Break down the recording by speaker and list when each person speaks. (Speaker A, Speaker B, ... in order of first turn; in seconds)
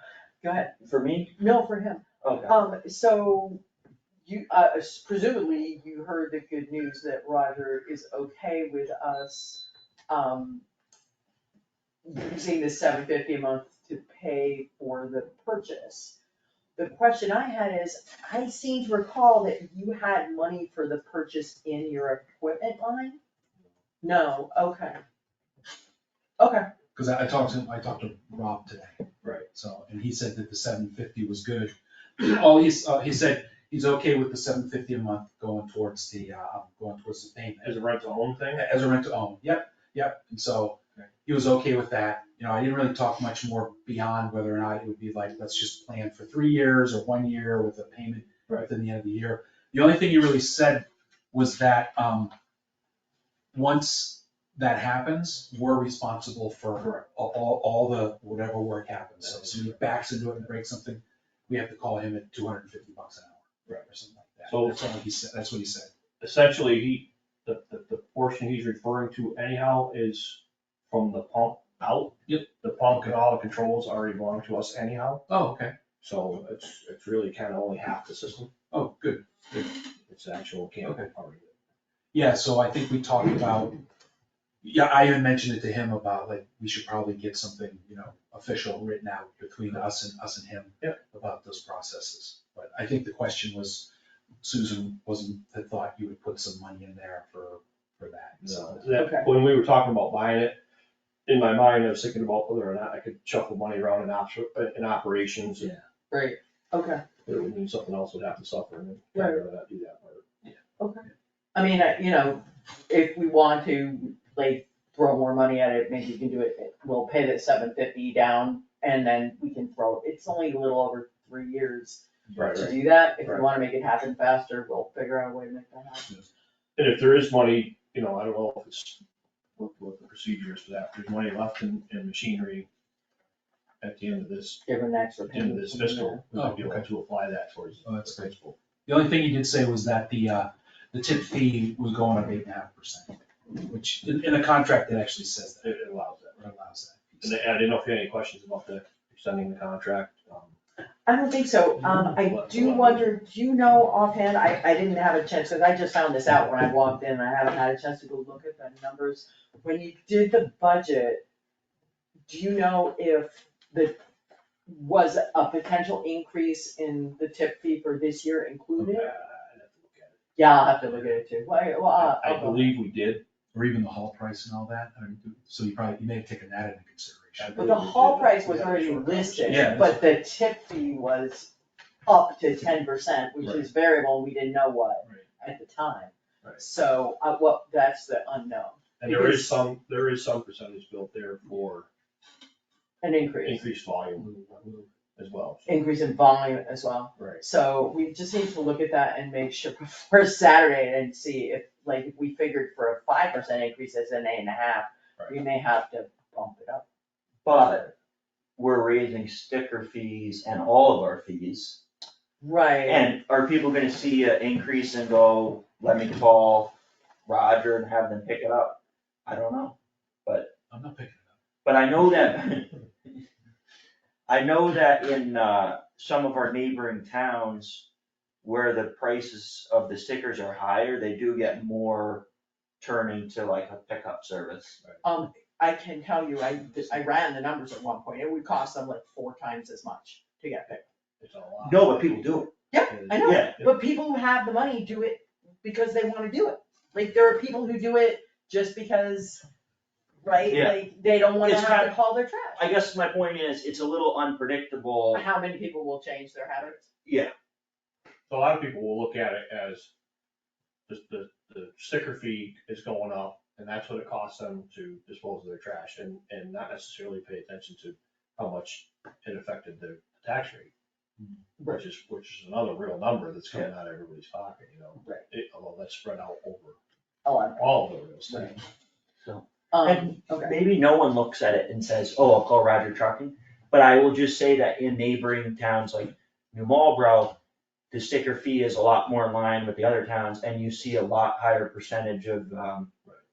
Speaker A: 0.4-0.7, 1.3-3.6, 4.2-10.6, 12.0-16.1, 16.8-23.2, 24.0-25.0, 26.4-26.7, 98.9-99.3, 106.1-107.0, 109.1-109.4, 110.8-122.0, 122.5-126.1, 134.7-136.2, 151.1-161.2, 162.3-164.0, 164.7-169.1, 170.3-172.8, 177.5-181.5, 182.1-189.6, 193.0-193.7, 195.7-206.8, 212.4-213.2, 235.0-240.8, 242.7-249.4, 250.2-252.6, 255.1-256.9, 277.2-278.5, 279.7-280.5
Speaker B: 0.8-1.3, 2.2-2.5, 207.4-207.9, 208.6-211.8, 212.8-216.7, 217.2-220.5, 221.6-222.8, 224.3-227.8, 228.4-232.2, 232.8-234.8, 241.6-242.5, 243.2-243.6, 250.5-250.8, 251.4-251.9, 252.5-255.2, 257.0-257.3, 279.2-287.4, 287.9-292.9
Speaker C: 26.9-37.8, 38.5-52.3, 53.5-65.9, 75.3-75.7, 78.7-79.8, 80.8-81.1, 82.1-83.8, 84.6-93.9, 94.4-98.9, 122.3-122.6, 136.3-136.8, 137.8-138.3, 138.8-145.8, 146.4-147.6, 173.5-177.7, 179.4-180.0, 194.2-194.9, 220.7-221.3
Speaker D: 37.6-38.6, 59.3-59.7, 64.5-64.8, 66.2-75.2, 76.0-78.5, 80.1-81.5, 98.4-100.6, 101.2-105.8, 107.2-110.5, 122.4-123.4, 126.8-129.0, 129.6-132.7, 133.8-134.6, 135.3-138.6, 145.6-146.4, 147.2-150.6, 152.1-153.0, 168.8-170.2, 171.9-173.2, 177.4-179.8, 189.0-191.9, 193.4-194.3, 195.2-195.7, 197.2-197.4, 241.2-243.7, 258.3-259.9, 260.9-270.7, 271.7-276.8, 277.6-278.6